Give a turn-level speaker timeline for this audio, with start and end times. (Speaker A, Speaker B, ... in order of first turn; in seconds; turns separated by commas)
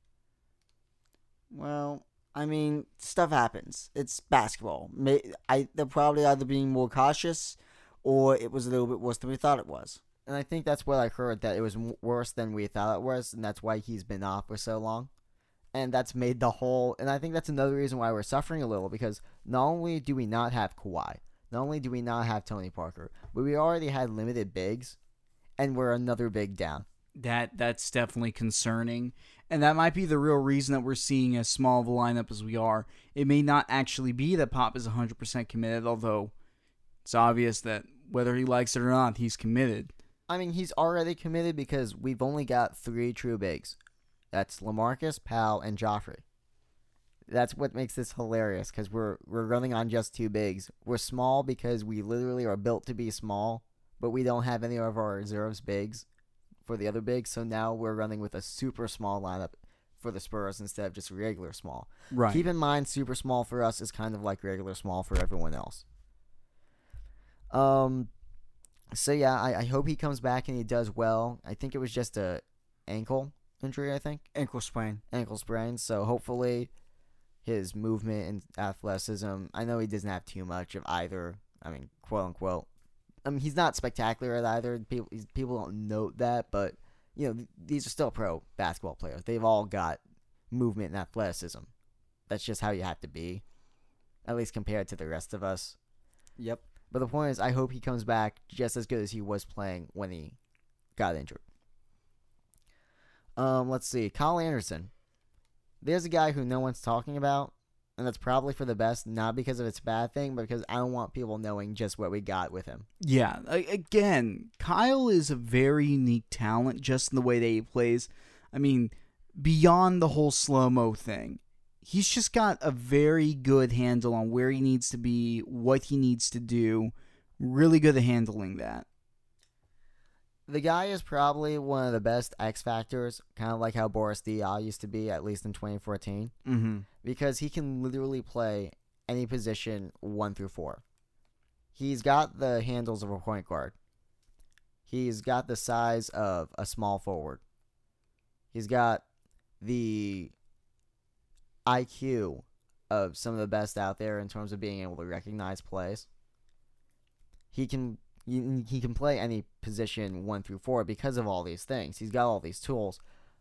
Speaker A: 1.5-10.0, Speaker B: 10.2-15.1, Speaker B: 15.7-25.0, Speaker B: 25.6-26.9, Speaker C: 27.1-36.3, Speaker C: 37.0-39.9, Speaker B: 40.3-43.8, Speaker B: 44.3-46.2, Speaker B: 47.3-56.0, Speaker B: 56.6-65.8, Speaker C: 62.1-62.4, Speaker B: 67.5-68.1, Speaker B: 68.9-74.2, Speaker A: 74.3-75.0, Speaker B: 75.1-76.7, Speaker B: 77.4-82.7, Speaker B: 83.2-90.0, Speaker B: 90.5-91.7, Speaker B: 92.3-93.4, Speaker B: 94.2-95.8, Speaker A: 96.4-96.6, Speaker B: 96.9-100.4, Speaker B: 101.0-101.4, Speaker B: 103.4-104.9, Speaker B: 105.8-112.8, Speaker C: 113.0-128.8, Speaker B: 130.5-136.3, Speaker C: 136.4-136.8, Speaker B: 137.0-140.8, Speaker B: 141.7-143.7, Speaker B: 144.9-147.4, Speaker B: 148.5-149.0, Speaker B: 149.6-150.3, Speaker B: 151.7-156.1, Speaker B: 157.5-163.0